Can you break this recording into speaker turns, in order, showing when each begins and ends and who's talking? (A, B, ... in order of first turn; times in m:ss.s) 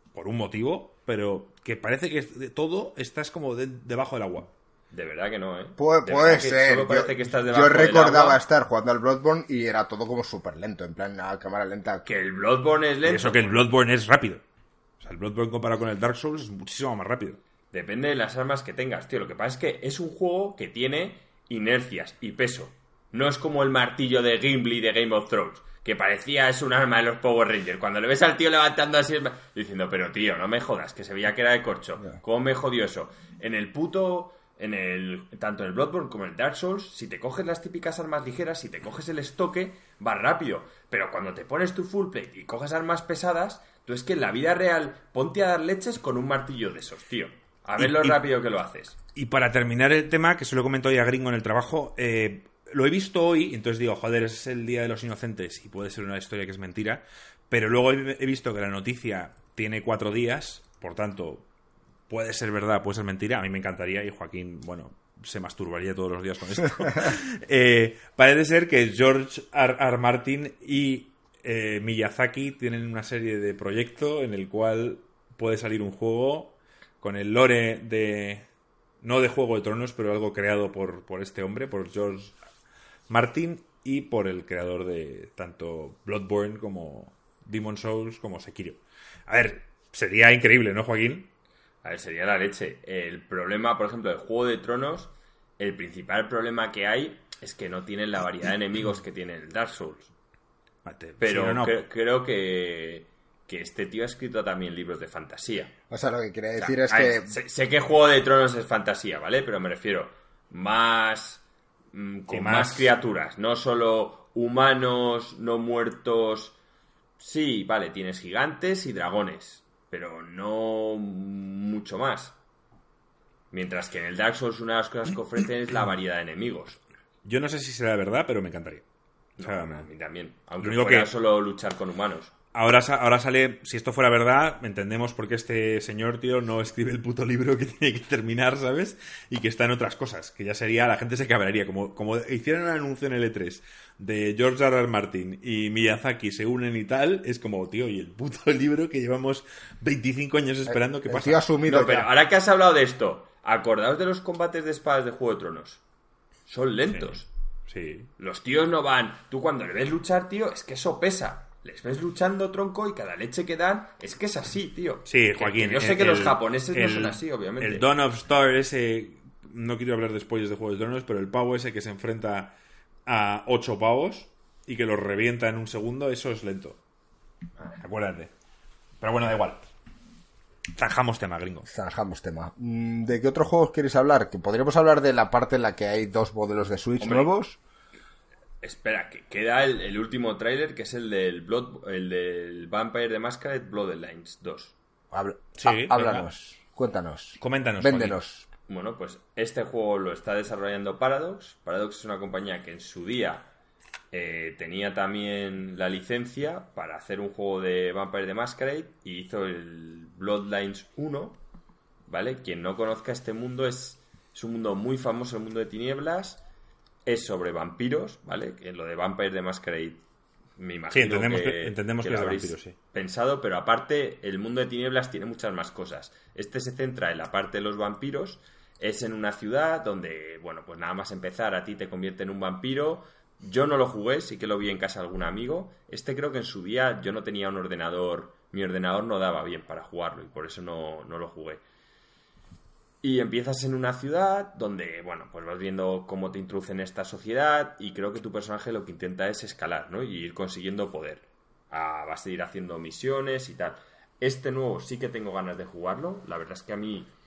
0:00.1-0:04.5 A
0:04.9-0:08.4 B
0:05.8-0:12.0 C
0:12.0-0:13.6 B
0:13.0-0:14.4 A
0:15.0-0:17.4 A
0:17.7-0:49.0 B
0:47.8-0:48.2 A
0:49.1-1:01.5 A
1:02.1-1:18.4 A
1:19.0-1:22.4 A
1:23.1-1:31.3 A
1:31.8-1:40.1 B
1:40.8-1:41.8 A
1:41.2-1:45.7 B
1:45.9-1:47.3 C
1:46.6-1:56.6 B
1:52.3-1:52.9 A
1:57.2-2:02.4 B
2:03.5-2:06.8 B
2:07.2-2:08.8 A
2:09.4-2:12.3 B
2:09.4-2:09.9 A
2:10.6-2:11.1 A
2:12.5-2:31.4 A
2:30.7-2:32.1 C
2:31.6-2:35.8 B
2:36.5-2:37.3 B
2:37.7-2:38.1 A
2:38.2-2:47.8 B
2:45.1-2:52.5 A
2:53.0-2:56.8 A
2:57.7-2:58.3 A
2:59.0-2:59.7 A
3:00.7-3:01.7 A
3:01.6-3:07.6 C
3:07.0-3:07.3 B
3:08.6-3:14.7 B
3:15.1-3:18.4 C
3:15.6-3:16.3 A
3:17.4-3:18.2 A
3:18.7-3:23.5 B
3:24.1-3:31.4 B
3:32.1-3:36.4 B
3:37.0-3:40.0 B
3:40.6-4:01.6 B
3:40.9-3:42.7 A
4:03.0-4:17.1 B